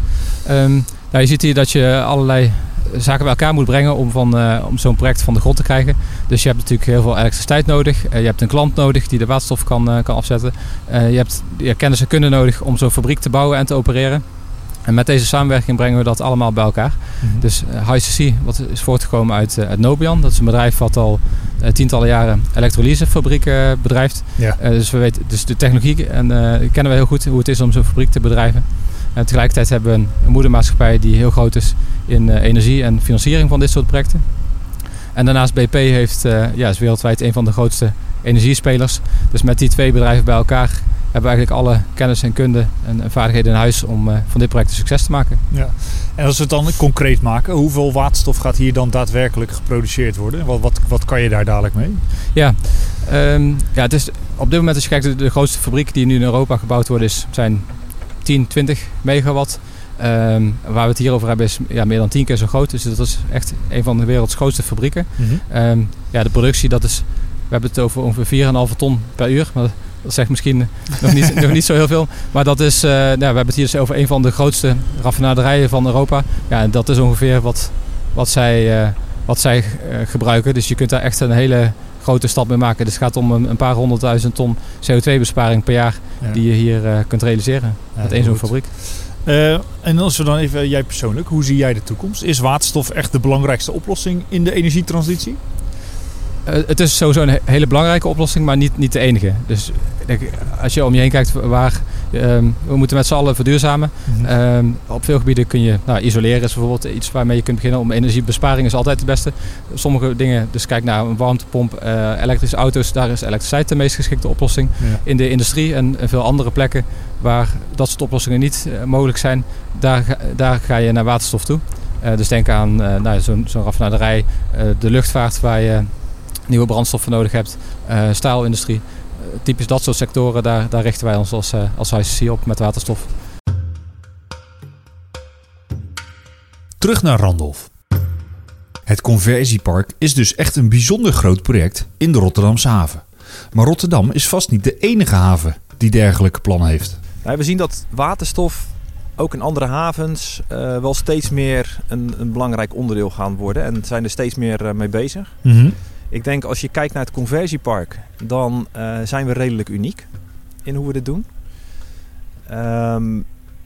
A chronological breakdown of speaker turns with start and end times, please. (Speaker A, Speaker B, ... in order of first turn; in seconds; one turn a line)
Speaker A: 0.2-45.4
Speaker B: 45.5-52.0
Speaker A: 52.3-88.7
Speaker B: 88.0-95.4
Speaker A: 96.5-133.1
Speaker C: 136.8-137.7
Speaker C: 138.9-147.0
Speaker D: 147.2-161.3
Speaker C: 155.4-155.8
Speaker D: 162.5-163.2